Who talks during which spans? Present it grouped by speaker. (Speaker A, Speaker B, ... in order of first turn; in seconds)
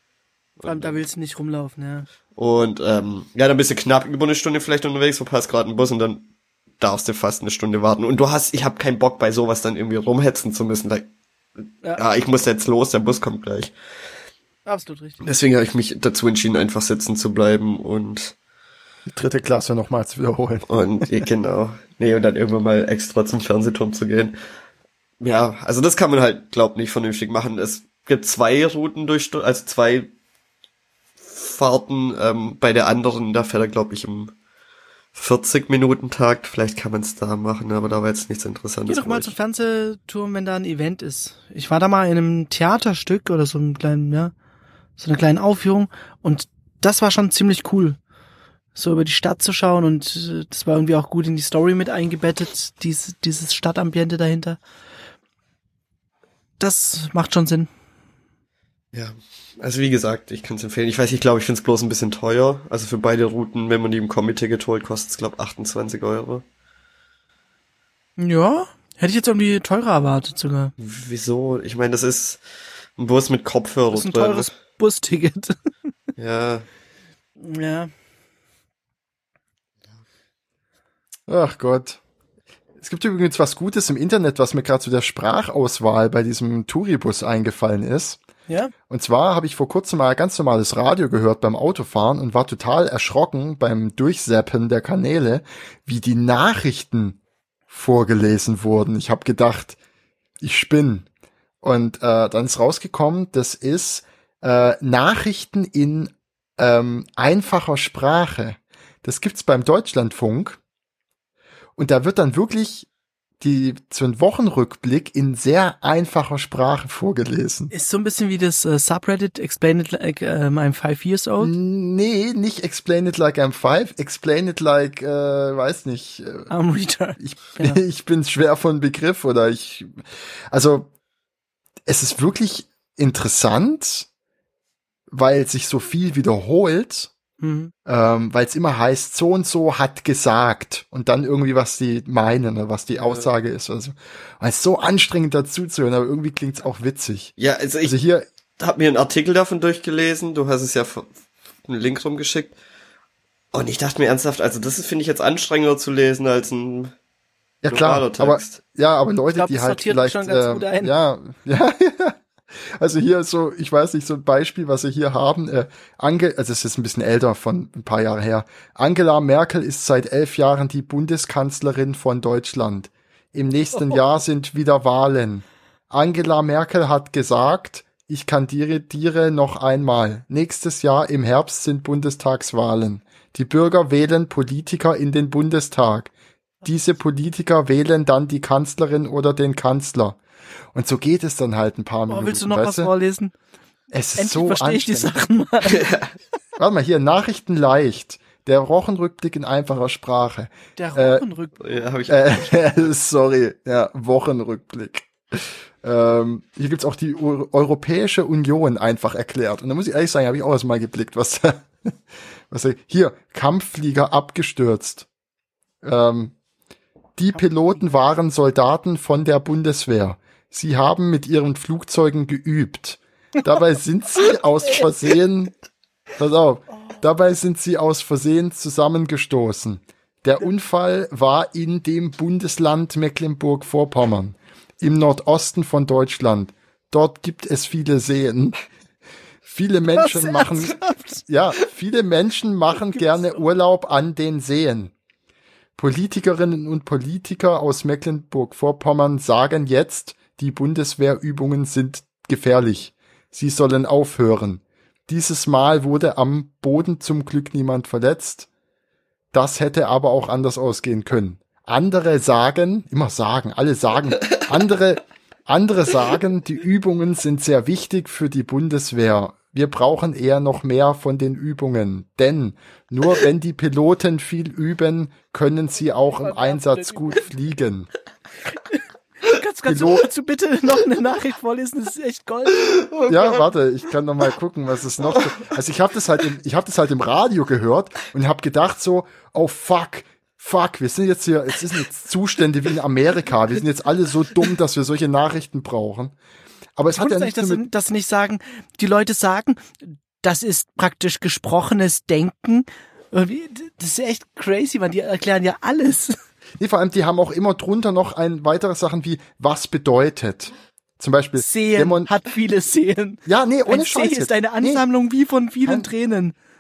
Speaker A: 0.6-1.0, 2.4-11.1, 12.0-13.7, 15.2-18.4, 20.7-24.4, 25.2-30.1, 31.2-34.3, 35.1-39.3, 58.9-66.4, 70.8-72.4, 73.0-74.5, 76.2-76.7, 143.0-143.3, 147.4-148.0, 148.6-151.1, 151.7-152.6, 153.5-156.9, 157.7-158.6, 195.7-196.1, 201.6-202.9
Speaker B: 0.6-2.1, 14.7-15.2, 38.9-44.3, 45.0-48.0, 48.8-54.6, 56.6-57.7, 68.2-70.7, 73.9-75.6, 77.4-77.9, 117.7-121.5, 126.5-127.8, 137.4-137.7, 159.3-160.9, 192.1-193.3, 194.2-195.9, 200.8-201.6, 239.9-241.2, 242.9-243.3, 276.2-277.2, 278.7-282.9, 296.9-306.2, 311.4-316.4
Speaker C: 19.1-21.3, 81.3-82.0, 82.8-88.2, 88.9-97.2, 97.7-99.8, 100.4-101.1, 101.6-110.6, 111.8-112.9, 113.4-117.7, 121.4-126.5, 127.2-130.9, 131.9-134.1, 135.1-137.1, 137.9-148.3, 157.6-186.1, 186.6-190.2, 190.7-192.9, 193.9-195.2, 196.6-201.3, 202.1-212.0, 212.5-215.1, 215.8-216.3, 217.2-225.5, 226.2-238.6, 239.4-244.9, 245.8-258.5, 259.3-277.9, 279.7-280.1, 283.1-296.1, 296.8-297.6, 306.6-312.1, 313.3-314.8